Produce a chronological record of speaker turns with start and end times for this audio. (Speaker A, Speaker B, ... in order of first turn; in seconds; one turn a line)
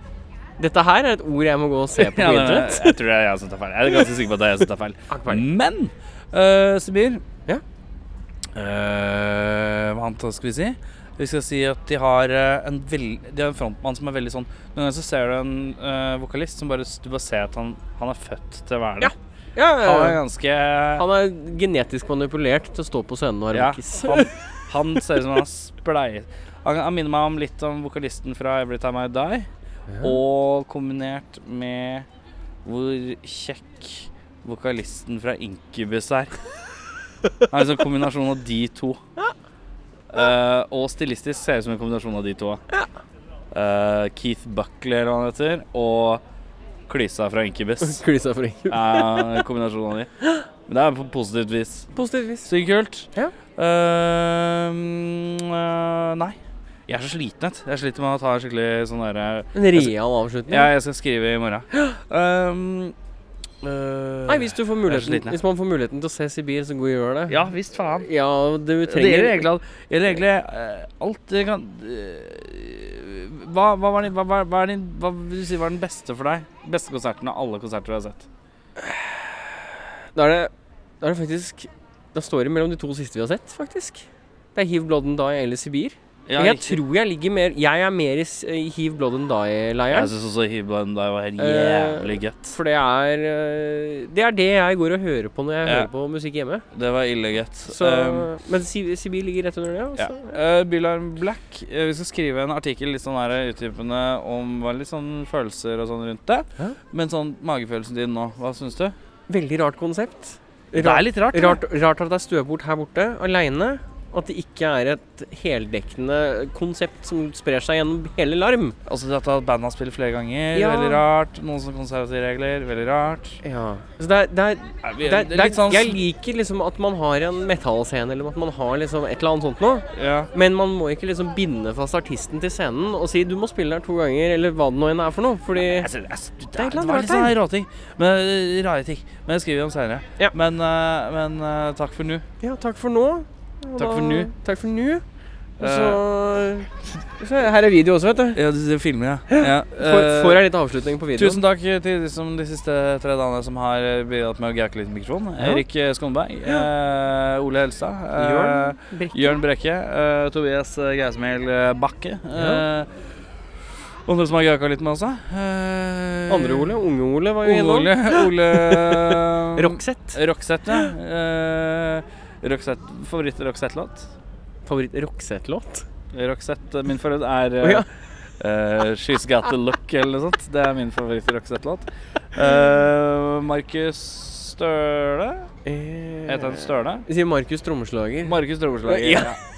Speaker A: 0.6-3.0
Speaker B: 2.0-7.2
Speaker A: 5.1-5.4
Speaker B: 8.5-19.1
Speaker A: 19.0-20.2
Speaker B: 19.8-21.0
Speaker A: 21.0-24.3
Speaker B: 23.5-29.5
Speaker A: 29.9-30.2
Speaker B: 30.0-32.1
Speaker B: 32.6-36.4
Speaker B: 37.5-39.0
Speaker B: 40.1-42.6
Speaker B: 43.5-46.2
Speaker B: 46.9-48.0
Speaker A: 47.8-49.4
Speaker B: 48.7-50.1
Speaker B: 50.7-51.9
Speaker A: 51.9-52.5
Speaker B: 52.4-56.4
Speaker B: 56.9-59.9
Speaker A: 59.5-60.7
Speaker B: 60.5-62.9
Speaker B: 63.6-65.4
Speaker A: 64.3-67.5
Speaker B: 67.3-68.1
Speaker A: 68.0-69.5
Speaker B: 68.9-78.3
Speaker A: 80.1-90.1
Speaker B: 86.3-86.8
Speaker B: 89.9-92.5
Speaker A: 91.4-96.7
Speaker B: 96.7-98.3
Speaker A: 97.7-100.3
Speaker B: 100.0-108.9
Speaker A: 109.3-118.8
Speaker B: 110.7-111.6
Speaker B: 118.8-123.4
Speaker A: 120.5-121.0
Speaker A: 123.4-135.9
Speaker B: 124.8-126.0
Speaker B: 129.9-130.3
Speaker B: 135.5-142.2
Speaker A: 136.6-137.3
Speaker A: 142.4-145.0
Speaker B: 143.8-144.3
Speaker A: 145.6-148.4
Speaker B: 145.6-146.0
Speaker B: 148.3-150.4
Speaker A: 149.3-151.4
Speaker B: 151.2-162.9
Speaker A: 158.2-159.4
Speaker A: 162.3-162.6
Speaker B: 164.1-166.7
Speaker A: 166.3-170.2
Speaker B: 167.4-174.1
Speaker A: 174.7-175.8
Speaker B: 176.1-177.8
Speaker A: 177.6-177.9
Speaker B: 178.4-185.5
Speaker A: 185.6-189.4
Speaker B: 186.3-187.1
Speaker B: 188.2-189.4